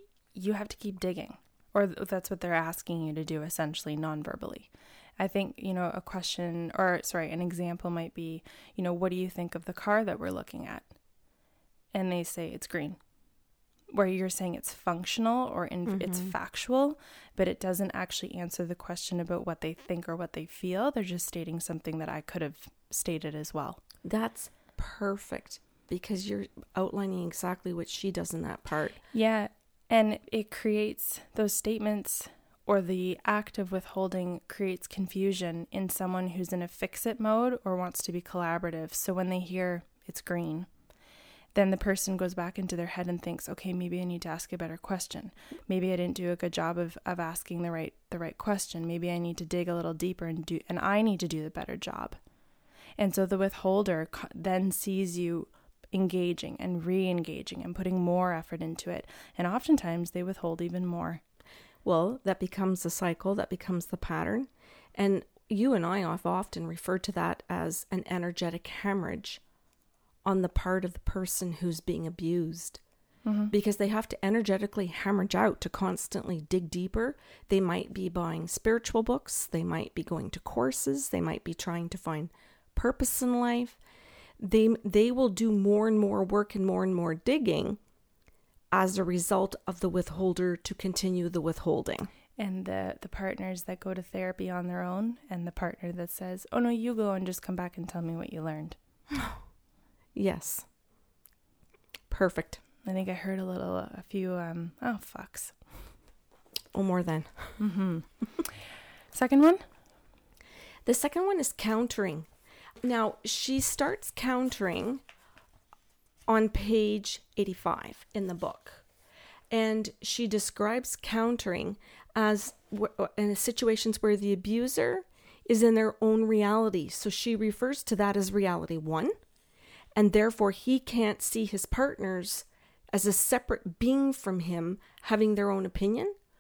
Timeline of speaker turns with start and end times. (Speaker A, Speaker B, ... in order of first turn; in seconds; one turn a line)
Speaker A: 0.3-10.9
Speaker A: 11.9-13.0
Speaker A: 13.9-23.8
Speaker B: 15.8-16.3
Speaker B: 24.0-29.0
Speaker A: 29.1-40.7
Speaker A: 41.5-52.2
Speaker A: 53.0-61.2
Speaker B: 61.8-69.4
Speaker B: 70.2-72.8
Speaker A: 73.2-73.5
Speaker B: 73.5-83.8
Speaker B: 84.4-87.8
Speaker B: 88.7-92.1
Speaker A: 92.4-98.8
Speaker B: 99.1-99.4
Speaker B: 100.1-100.7
Speaker B: 102.1-102.6
Speaker A: 102.8-105.6
Speaker B: 106.7-107.6
Speaker A: 107.6-108.3
Speaker A: 109.1-109.6
Speaker B: 110.8-112.3
Speaker B: 112.8-115.0
Speaker B: 116.3-118.8
Speaker B: 119.5-129.1
Speaker B: 129.9-136.1